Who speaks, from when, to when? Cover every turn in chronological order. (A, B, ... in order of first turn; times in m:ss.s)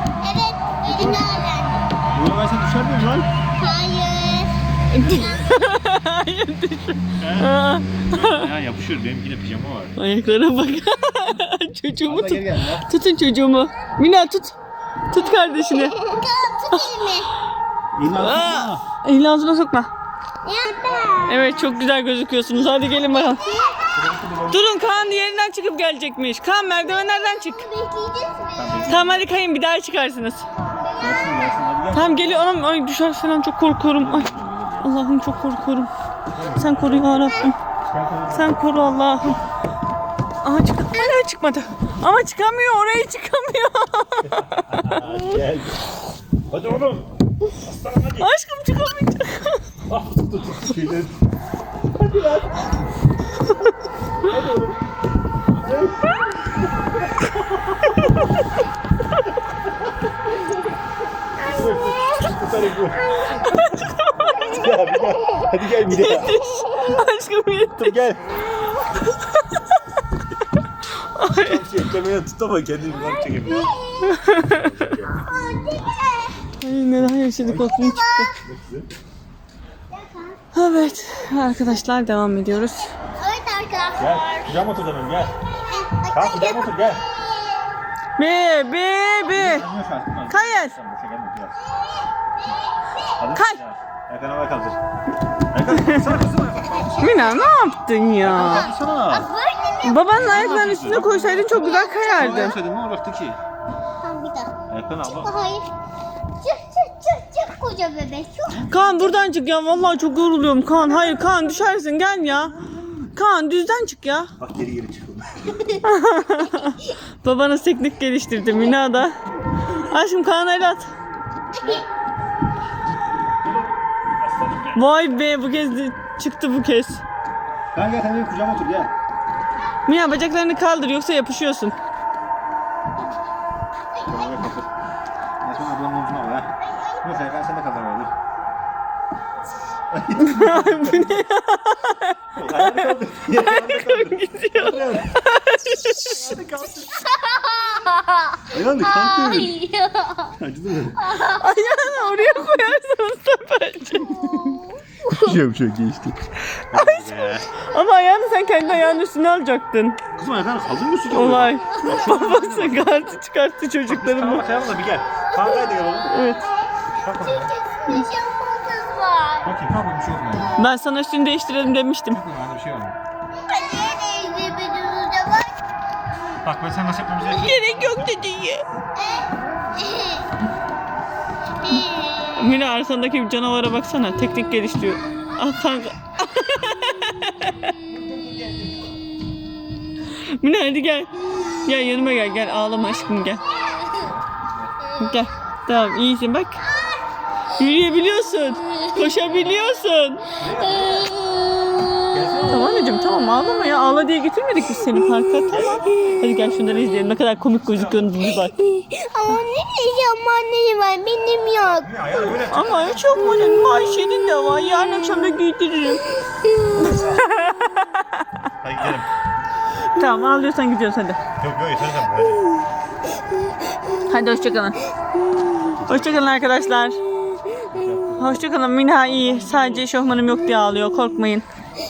0:00.2-0:01.9 A
0:00.8-0:01.3 B
0:02.1-0:03.3 B
0:03.6-0:05.7 A
0:04.9-0:08.4 C
0:07.2-0:10.0 B
0:10.0-0:14.6 C
0:12.0-0:12.9 B
0:15.1-0:16.0 C
0:15.1-0:17.3 A
0:17.9-0:18.8 B
0:18.2-0:19.9 C
0:20.4-0:21.5 A
0:21.3-0:23.4 C
0:23.2-0:23.9 A
0:23.9-0:24.7 B
0:24.5-0:27.6 C
0:26.9-0:28.8 A
0:28.5-0:29.3 B
0:28.9-0:30.4 C
0:30.6-0:31.4 A
0:31.0-0:32.5 B
0:31.9-0:35.9 C
0:33.9-0:34.9 B
0:36.3-0:39.4 B
0:36.5-0:37.6 C
0:38.3-0:39.4 C
0:40.4-0:45.1 C
0:44.2-0:45.9 B
0:46.5-0:48.3 B
0:48.2-0:49.6 C
0:49.9-0:51.1 B
0:51.9-0:52.7 B
0:54.2-0:54.8 B
0:55.5-0:56.1 B
1:01.4-1:03.3 B
1:03.5-1:04.4 C
1:04.4-1:06.4 B
1:05.9-1:07.9 C
1:07.8-1:08.4 B
1:09.1-1:09.6 C
1:11.0-1:11.6 C
1:11.3-1:15.2 B
1:12.9-1:14.1 A
1:14.1-1:14.5 C
1:15.3-1:16.4 A
1:16.6-1:18.3 C
1:16.7-1:17.8 B
1:17.8-1:18.3 A
1:18.4-1:18.9 B
1:19.9-1:20.4 A
1:20.5-1:22.9 C
1:23.2-1:24.6 A
1:24.0-1:25.3 B
1:25.6-1:27.7 A
1:26.1-1:27.0 B
1:28.2-1:29.6 C
1:29.3-1:31.6 B
1:30.3-1:30.8 C
1:31.6-1:33.2 A
1:33.2-1:34.8 B
1:35.5-1:36.9 B
1:35.7-1:36.1 C
1:36.6-1:37.6 A
1:37.0-1:38.7 C
1:38.2-1:42.6 A
1:38.2-1:39.3 B
1:39.8-1:42.6 C
1:40.2-1:43.4 B
1:44.0-1:45.7 A
1:44.7-1:45.3 B
1:46.4-1:48.9 A
1:48.7-1:52.6 C
1:53.1-1:54.3 C
1:54.4-1:55.4 B
1:55.8-1:59.1 C
1:59.8-2:00.9 C
2:01.5-2:01.9 B
2:03.4-2:05.3 B
2:04.8-2:07.0 C
2:07.7-2:08.9 B
2:09.9-2:11.8 C
2:14.0-2:14.4 A
2:14.1-2:14.7 B
2:15.4-2:18.1 B
2:16.6-2:17.1 A
2:19.9-2:21.2 B
2:20.2-2:22.2 C
2:22.3-2:25.2 B
2:23.4-2:26.2 C
2:26.1-2:26.9 B
2:26.3-2:30.4 A
2:28.5-2:29.6 B
2:30.4-2:31.0 B
2:31.1-2:31.4 A
2:31.3-2:34.2 C
2:34.0-2:36.2 B
2:34.4-2:34.6 A
2:36.6-2:40.0 C
2:36.7-2:37.5 B
2:40.2-2:43.1 B
2:41.1-2:44.5 C
2:41.7-2:42.0 A
2:43.9-2:46.3 B
2:45.2-2:49.5 A
2:46.1-2:46.4 C
2:47.0-2:47.5 B
2:49.4-2:50.6 B
2:50.6-2:52.2 C
2:52.1-2:53.0 B
2:53.3-2:55.6 A
2:56.4-2:58.2 B
2:57.3-2:58.6 C
2:59.0-3:00.2 A
3:01.6-3:02.5 A
3:02.4-3:07.7 C
3:07.9-3:08.7 B
3:10.4-3:13.4 C
3:13.5-3:14.1 A
3:14.0-3:14.7 B
3:15.0-3:16.6 C
3:16.6-3:17.1 A
3:17.6-3:20.3 C
3:20.4-3:21.2 B
3:20.4-3:22.4 A
3:22.1-3:22.8 B
3:22.4-3:28.6 C
3:25.5-3:28.2 B
3:28.2-3:31.9 A
3:31.8-3:34.0 B
3:32.5-3:36.0 C
3:36.9-3:38.0 C
3:38.6-3:39.1 B
3:39.9-3:41.2 C
3:41.4-3:42.5 B
3:44.1-3:44.8 C
3:45.8-3:46.4 B
3:45.9-3:47.0 C
3:47.7-3:49.9 B
3:48.2-3:51.4 C